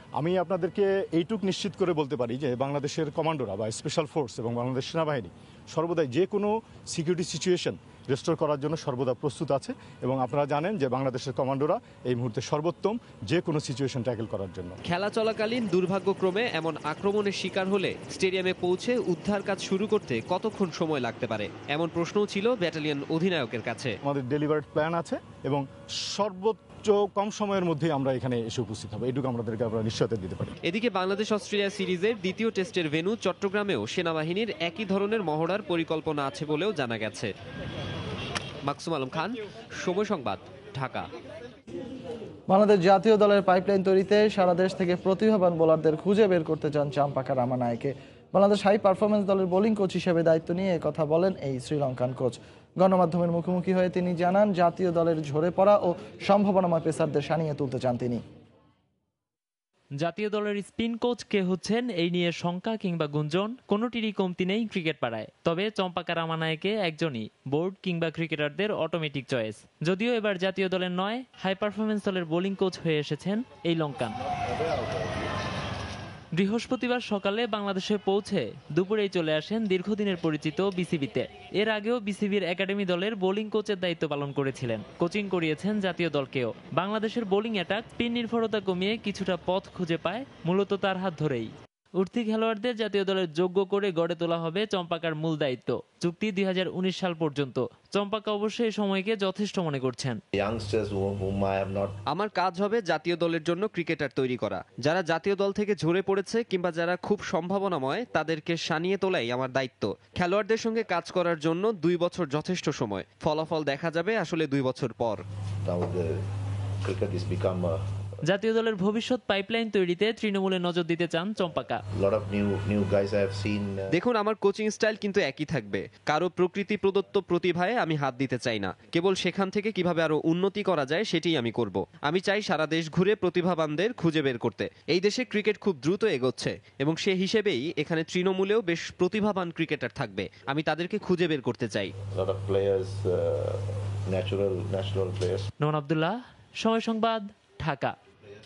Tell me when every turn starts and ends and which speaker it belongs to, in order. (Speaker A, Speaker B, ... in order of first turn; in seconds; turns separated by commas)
Speaker A: 0.2-14.8, Speaker B: 14.9-23.9, Speaker A: 24.0-30.5, Speaker B: 30.6-37.3, Speaker B: 38.7-41.1, Speaker C: 42.5-58.2, Speaker D: 60.0-74.1, Speaker E: 74.5-75.3, Speaker D: 76.3-100.2, Speaker E: 100.3-101.9, Speaker B: 102.1-115.2, Speaker E: 115.6-116.2, Speaker E: 116.8-117.8, Speaker D: 118.3-121.8, Speaker E: 122.0-123.8, Speaker B: 123.9-141.9, Speaker E: 142.1-145.4, Speaker D: 145.6-147.9